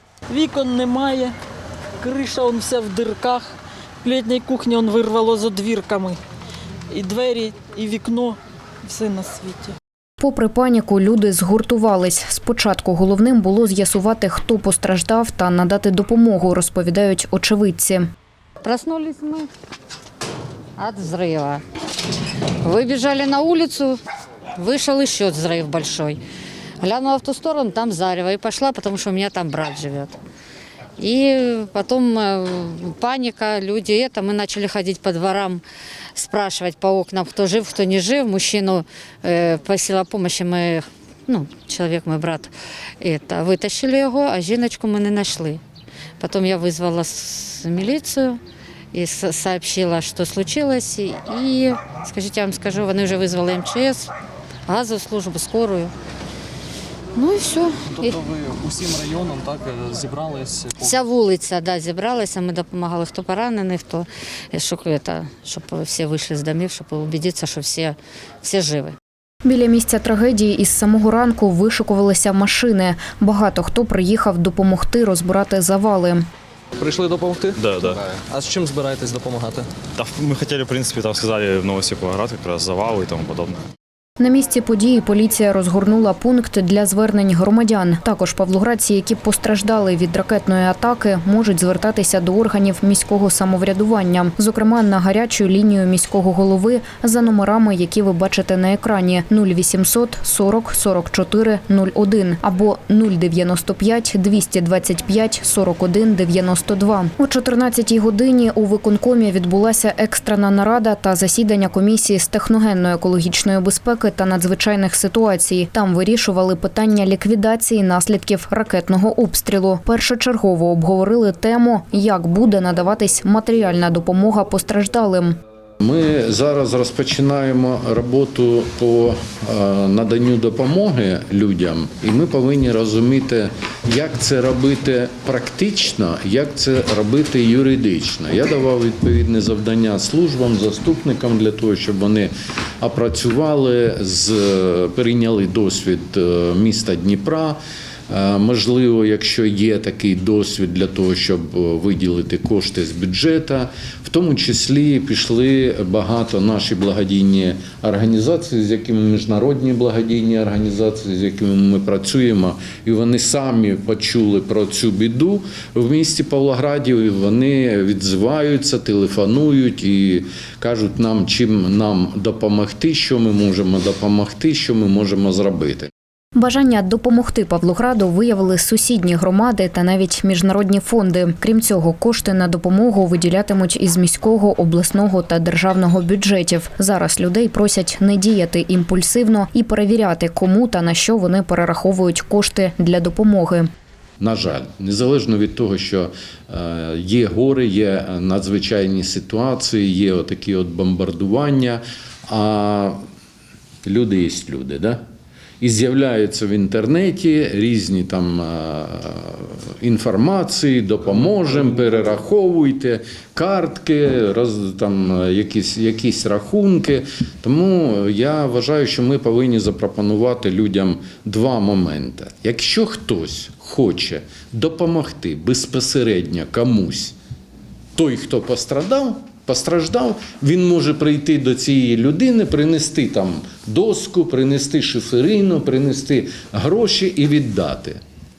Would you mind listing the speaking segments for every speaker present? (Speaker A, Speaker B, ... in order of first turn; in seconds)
Speaker A: 0.3-1.4, 2.0-3.5, 4.0-6.2, 6.9-9.8
Speaker B: 10.2-18.1, 69.5-76.3, 84.2-125.4, 176.4-193.7
Speaker C: 18.6-19.5, 20.8-21.6, 22.6-24.0, 24.6-26.2, 26.8-30.2, 31.0-35.6, 36.2-45.6, 46.2-48.4, 48.9-54.1, 54.7-55.9, 57.2-58.2, 60.8-69.0
Speaker D: 57.9-61.0, 76.8-79.7
Speaker E: 77.6-78.0, 80.0-83.6
Speaker F: 125.8-175.9, 194.2-203.0, 203.8-205.0, 205.6-227.2, 228.0-238.0